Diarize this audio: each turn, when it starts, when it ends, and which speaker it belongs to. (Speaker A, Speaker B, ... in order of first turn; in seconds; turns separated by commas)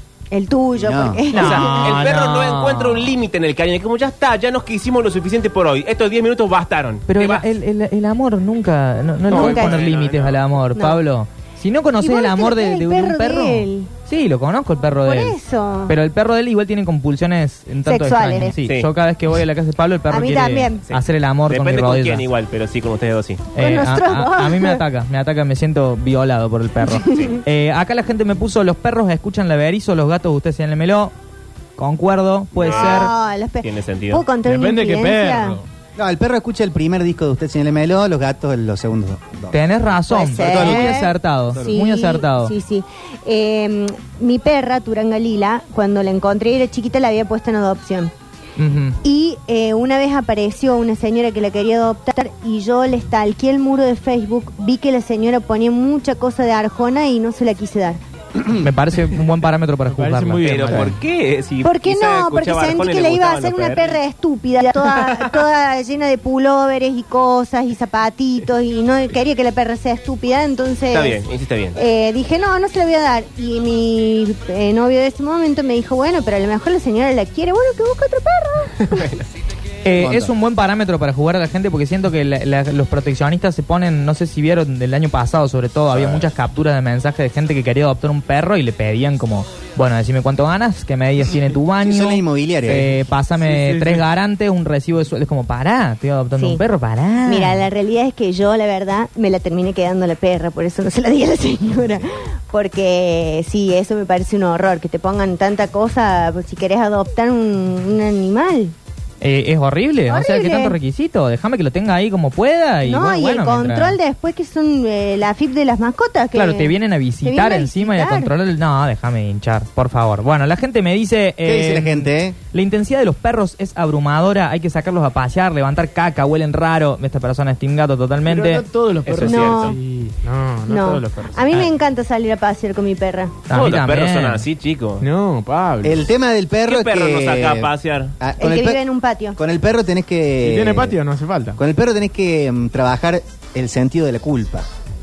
Speaker A: 0.3-2.0, Speaker B: 0.8-1.2, Speaker C: 1.3-3.1, Speaker D: 1.3-7.4, Speaker C: 7.1-22.2, Speaker D: 9.3-10.4, Speaker A: 9.3-9.8, Speaker A: 10.7-11.0, Speaker A: 12.0-13.9, Speaker A: 15.0-15.9, Speaker A: 17.9-18.6, Speaker A: 20.1-20.9, Speaker D: 20.9-23.5, Speaker C: 23.5-31.1, Speaker A: 23.6-24.8, Speaker A: 26.9-27.3, Speaker D: 27.1-27.3, Speaker C: 31.8-33.1, Speaker D: 32.5-34.2, Speaker A: 32.6-35.6, Speaker E: 34.4-35.6, Speaker B: 36.0-39.6, Speaker C: 39.5-42.5, Speaker A: 40.1-48.1, Speaker B: 40.3-41.8, Speaker C: 48.6-49.0, Speaker A: 49.0-58.0, Speaker C: 58.5-60.9, Speaker E: 59.9-60.9, Speaker D: 60.4-64.0, Speaker A: 61.6-71.2, Speaker D: 64.8-65.3, Speaker D: 70.9-71.8, Speaker A: 71.7-79.1, Speaker D: 78.9-79.2, Speaker C: 79.8-97.7, Speaker B: 80.0-80.3, Speaker B: 91.8-93.0, Speaker E: 93.4-94.0, Speaker A: 96.4-96.6, Speaker A: 97.2-108.7, Speaker C: 109.2-114.0, Speaker A: 110.1-110.8, Speaker A: 112.8-118.3, Speaker C: 116.3-128.6, Speaker B: 121.4-122.3, Speaker E: 128.2-131.6, Speaker D: 129.1-129.8, Speaker A: 129.2-129.8, Speaker A: 130.7-133.4, Speaker C: 133.5-134.4, Speaker D: 133.5-135.0, Speaker E: 135.0-136.1, Speaker B: 135.8-138.8, Speaker D: 136.7-138.1, Speaker A: 138.4-139.4, Speaker B: 139.3-140.9, Speaker E: 140.4-141.6, Speaker B: 141.6-144.7